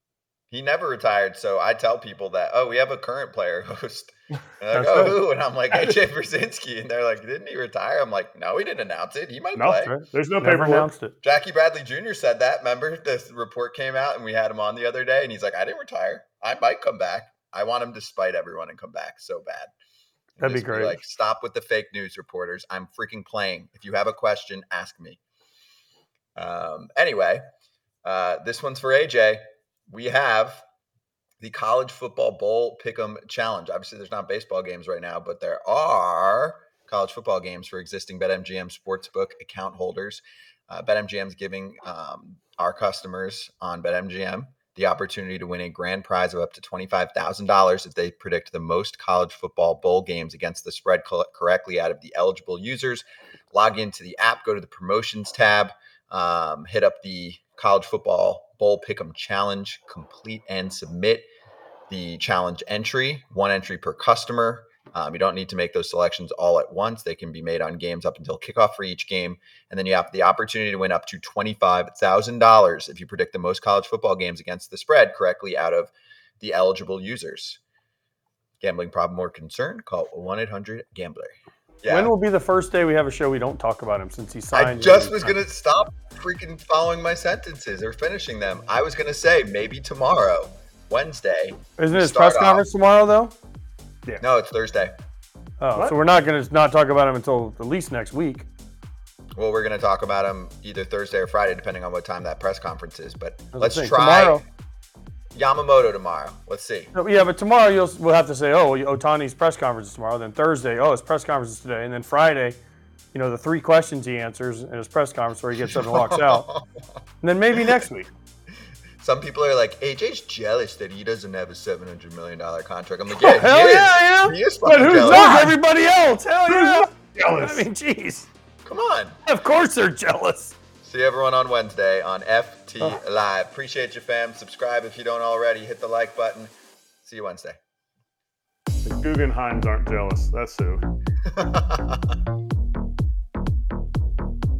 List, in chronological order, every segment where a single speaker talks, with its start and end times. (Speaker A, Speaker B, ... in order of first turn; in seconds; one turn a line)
Speaker A: 0.5-9.9
Speaker B: 4.7-5.2
Speaker C: 9.5-10.9
Speaker B: 9.8-11.1
Speaker A: 11.2-19.7
Speaker A: 20.4-25.2
Speaker B: 20.4-21.0
Speaker A: 26.4-27.4
Speaker A: 28.0-30.6
Speaker A: 31.4-61.2
Speaker A: 61.9-77.6
Speaker A: 78.6-82.1
Speaker B: 81.9-85.4
Speaker A: 84.5-92.6
Speaker B: 91.8-93.3
Speaker A: 94.2-94.9
Speaker B: 95.6-98.5
Speaker A: 99.3-104.4
Speaker B: 103.5-104.4
Speaker A: 105.3-106.9
Speaker B: 106.9-112.6
Speaker B: 113.1-116.5
Speaker A: 115.7-116.6
Speaker B: 117.2-118.1
Speaker A: 119.0-125.5
Speaker B: 123.1-128.3
Speaker C: 124.6-125.5
Speaker C: 126.5-127.7
Speaker A: 128.6-129.2
Speaker B: 129.2-130.6
Speaker A: 130.8-136.5
Speaker A: 137.0-137.6
Speaker C: 138.8-140.8
Speaker A: 141.3-142.0